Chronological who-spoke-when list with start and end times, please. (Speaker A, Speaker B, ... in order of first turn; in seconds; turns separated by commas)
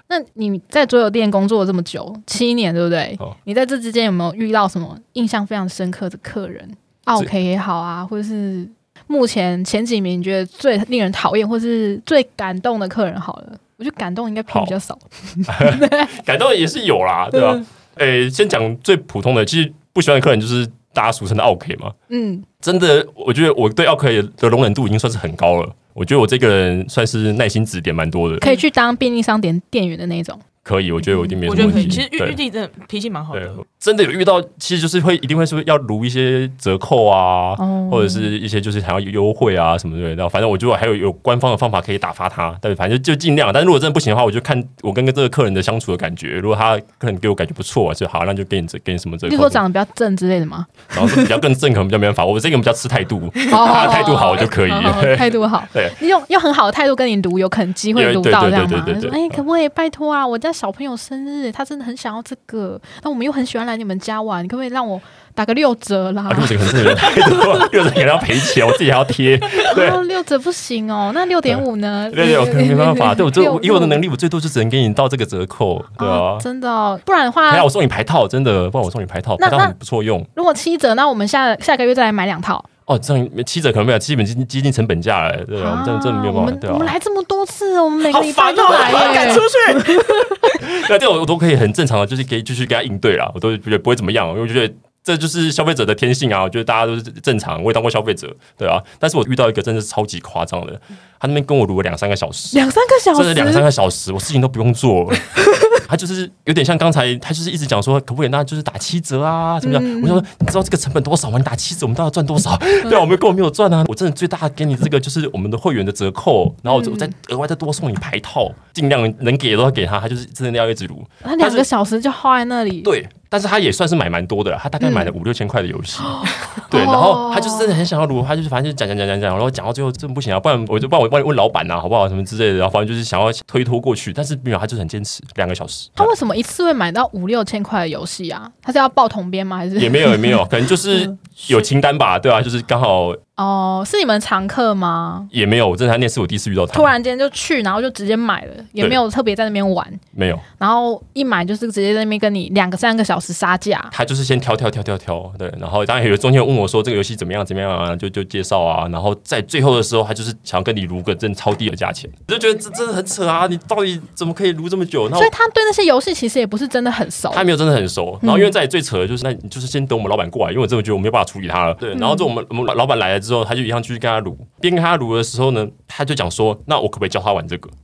Speaker A: 0.1-16.1, Speaker B: 14.5-14.7, Speaker B: 15.5-21.9, Speaker A: 17.3-17.6, Speaker A: 22.1-22.5, Speaker B: 22.6-28.5, Speaker A: 28.4-30.4, Speaker B: 30.6-32.4, Speaker A: 31.1-32.0, Speaker C: 31.4-33.6, Speaker B: 33.3-49.6, Speaker A: 37.6-38.3, Speaker A: 49.2-51.3, Speaker B: 50.9-56.0, Speaker A: 53.5-67.7, Speaker B: 57.9-59.4, Speaker B: 66.3-70.0, Speaker A: 69.5-74.0, Speaker B: 71.5-76.5, Speaker A: 76.0-77.7, Speaker B: 77.5-80.3, Speaker A: 79.4-79.7, Speaker A: 80.3-82.7, Speaker B: 82.9-87.0, Speaker A: 85.6-90.6, Speaker C: 88.0-90.2, Speaker B: 88.7-89.5, Speaker B: 90.5-102.6, Speaker A: 102.5-103.7, Speaker B: 103.1-121.7, Speaker A: 105.4-105.8, Speaker A: 109.6-110.2, Speaker A: 116.7-117.1, Speaker A: 121.2-122.9, Speaker B: 122.8-136.1, Speaker A: 124.8-125.1, Speaker A: 126.0-127.7, Speaker A: 136.0-141.1, Speaker B: 139.8-143.2, Speaker A: 143.4-145.3, Speaker B: 145.3-146.9, Speaker A: 146.7-150.0, Speaker B: 150.1-150.4, Speaker A: 150.6-153.9, Speaker B: 153.9-165.3, Speaker A: 165.1-167.5, Speaker B: 167.3-177.7, Speaker A: 168.2-168.5, Speaker A: 171.9-172.3